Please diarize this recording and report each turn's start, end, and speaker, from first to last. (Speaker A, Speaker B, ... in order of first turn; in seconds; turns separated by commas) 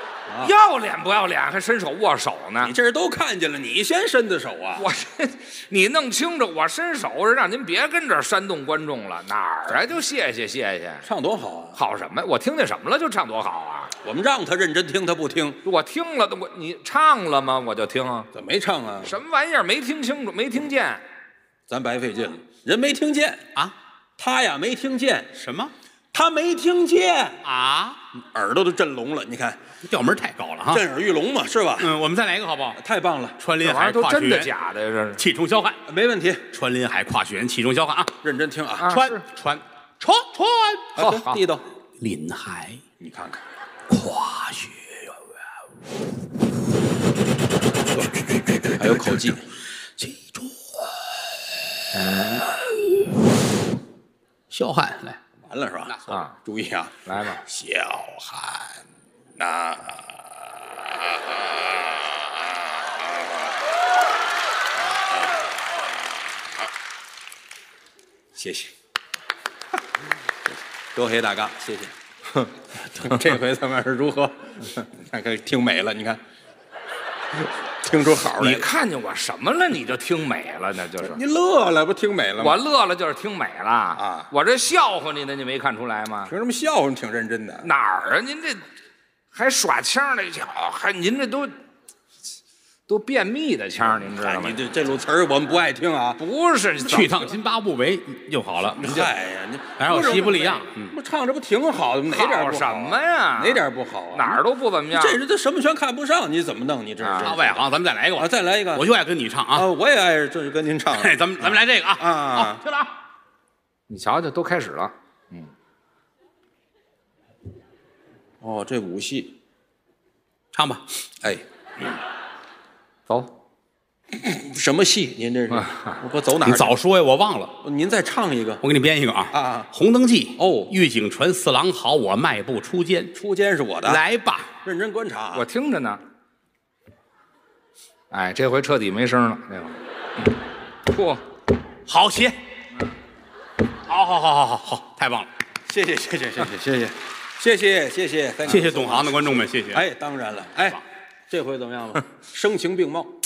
Speaker A: 0.3-0.5, Speaker B: 0.4-2.7, Speaker A: 2.6-4.8, Speaker B: 4.8-11.0, Speaker A: 11.0-11.8, Speaker B: 11.7-13.9, Speaker A: 14.0-15.6, Speaker B: 15.6-18.3, Speaker A: 18.3-19.1, Speaker B: 19.0-21.0, Speaker A: 21.7-23.4, Speaker A: 24.2-25.3, Speaker C: 25.3-25.7, Speaker A: 26.1-27.4, Speaker C: 27.4-28.0, Speaker A: 28.2-29.6, Speaker C: 29.8-30.8, Speaker A: 30.7-31.9, Speaker C: 31.8-32.8, Speaker A: 32.8-33.4, Speaker C: 33.4-34.5, Speaker B: 33.6-35.2, Speaker C: 35.2-35.8, Speaker A: 35.9-36.4, Speaker C: 36.5-38.2, Speaker A: 38.2-38.9, Speaker B: 38.8-39.2, Speaker C: 38.9-41.1, Speaker A: 41.0-41.6, Speaker B: 41.0-41.4, Speaker C: 42.0-42.8, Speaker A: 43.0-43.4, Speaker C: 43.9-45.2, Speaker C: 48.0-49.2, Speaker A: 48.8-49.4, Speaker C: 50.0-50.9, Speaker B: 51.9-52.4, Speaker C: 52.0-53.0, Speaker C: 54.5-55.2, Speaker A: 55.5-58.6, Speaker B: 56.1-56.4, Speaker B: 57.0-57.4, Speaker A: 59.4-60.3, Speaker A: 61.0-62.0, Speaker A: 68.3-68.7, Speaker A: 70.9-71.9, Speaker A: 72.7-76.2, Speaker A: 77.8-78.7, Speaker B: 78.4-81.2, Speaker A: 81.0-82.6, Speaker B: 82.4-86.3, Speaker A: 84.0-84.3, Speaker A: 86.3-87.7, Speaker B: 87.6-88.6, Speaker B: 89.3-91.5, Speaker B: 92.9-94.6, Speaker A: 94.1-96.2, Speaker B: 96.2-97.3, Speaker C: 96.8-99.1, Speaker A: 98.8-107.6, Speaker C: 99.8-100.9, Speaker B: 100.0-100.3, Speaker B: 102.1-105.2, Speaker B: 107.0-107.3, Speaker C: 107.2-109.7, Speaker A: 108.2-108.9, Speaker A: 109.5-112.6, Speaker C: 110.9-112.9, Speaker B: 113.9-115.5, Speaker A: 118.4-119.3, Speaker C: 120.5-120.9, Speaker A: 124.1-126.7, Speaker C: 126.4-127.6, Speaker A: 127.6-128.6, Speaker C: 128.6-133.1, Speaker A: 129.3-129.7, Speaker A: 130.4-130.7, Speaker A: 133.1-134.0, Speaker C: 133.8-134.5, Speaker A: 134.6-135.4, Speaker B: 135.3-136.0, Speaker B: 138.1-140.3, Speaker B: 140.8-141.2, Speaker C: 141.9-142.4, Speaker C: 143.9-145.3, Speaker A: 145.7-153.1, Speaker C: 148.4-149.9